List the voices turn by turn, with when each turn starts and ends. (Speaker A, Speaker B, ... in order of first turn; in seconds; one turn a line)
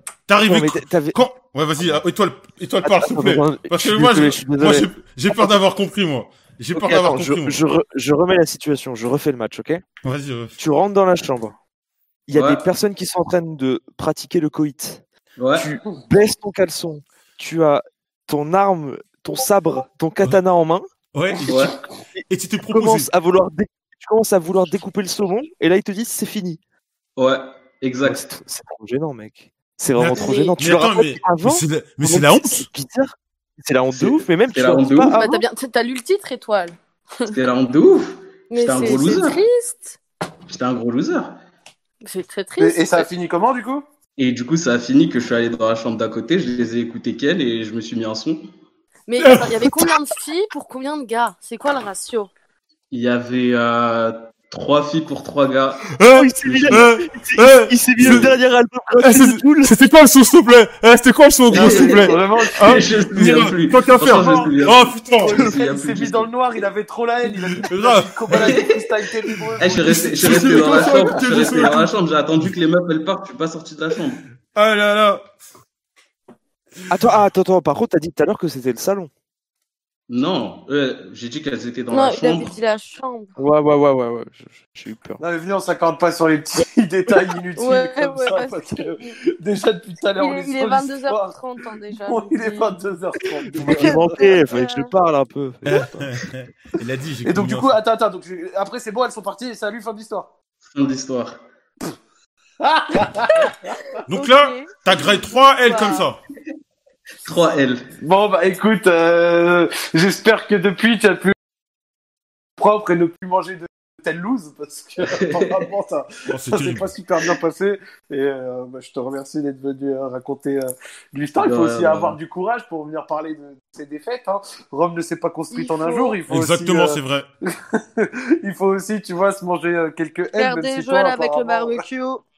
Speaker A: 0.3-7.6
Speaker B: 0.4-1.2
Speaker B: 2.8-4.9
Speaker B: 6.7-9.8
Speaker A: 10.0-10.6
Speaker B: 10.6-11.6
Speaker B: 12.3-15.0
Speaker C: 12.3-12.7
Speaker C: 15.4-15.8
Speaker B: 15.5-20.9
Speaker A: 21.1-21.7
Speaker C: 21.5-21.8
Speaker B: 22.1-26.6
Speaker A: 22.3-23.1
Speaker C: 27.2-28.2
Speaker B: 28.0-35.4
Speaker A: 29.9-32.7
Speaker D: 30.2-30.5
Speaker C: 33.9-35.2
Speaker D: 35.2-37.4
Speaker C: 37.3-39.4
Speaker D: 38.5-40.0
Speaker C: 40.5-41.4
Speaker D: 42.0-43.1
Speaker E: 42.6-43.8
Speaker C: 44.2-48.5
Speaker D: 49.1-52.3
Speaker A: 49.2-49.9
Speaker C: 52.9-55.9
Speaker A: 56.0-58.3
Speaker B: 56.1-59.7
Speaker C: 56.4-56.9
Speaker C: 58.0-58.3
Speaker A: 59.0-65.3
Speaker E: 61.5-63.5
Speaker C: 61.5-66.3
Speaker E: 64.0-71.3
Speaker A: 67.6-68.5
Speaker C: 68.4-68.9
Speaker C: 69.6-74.2
Speaker A: 69.6-72.5
Speaker A: 74.5-75.3
Speaker B: 76.9-79.1
Speaker C: 80.1-82.5
Speaker D: 81.9-83.3
Speaker B: 83.4-85.2
Speaker E: 85.2-91.4
Speaker D: 87.6-89.0
Speaker D: 90.2-92.8
Speaker E: 91.9-94.3
Speaker B: 93.6-96.1
Speaker D: 93.8-94.9
Speaker A: 95.6-97.8
Speaker E: 97.2-100.3
Speaker C: 100.7-101.4
Speaker E: 102.6-103.8
Speaker A: 104.1-106.2
Speaker D: 104.1-104.7
Speaker D: 105.5-106.1
Speaker C: 107.2-107.9
Speaker E: 108.0-111.3
Speaker E: 112.6-127.0
Speaker C: 115.1-115.7
Speaker A: 116.3-116.9
Speaker C: 121.4-122.2
Speaker D: 125.5-126.2
Speaker A: 126.3-127.3
Speaker E: 127.7-131.8
Speaker D: 130.3-132.2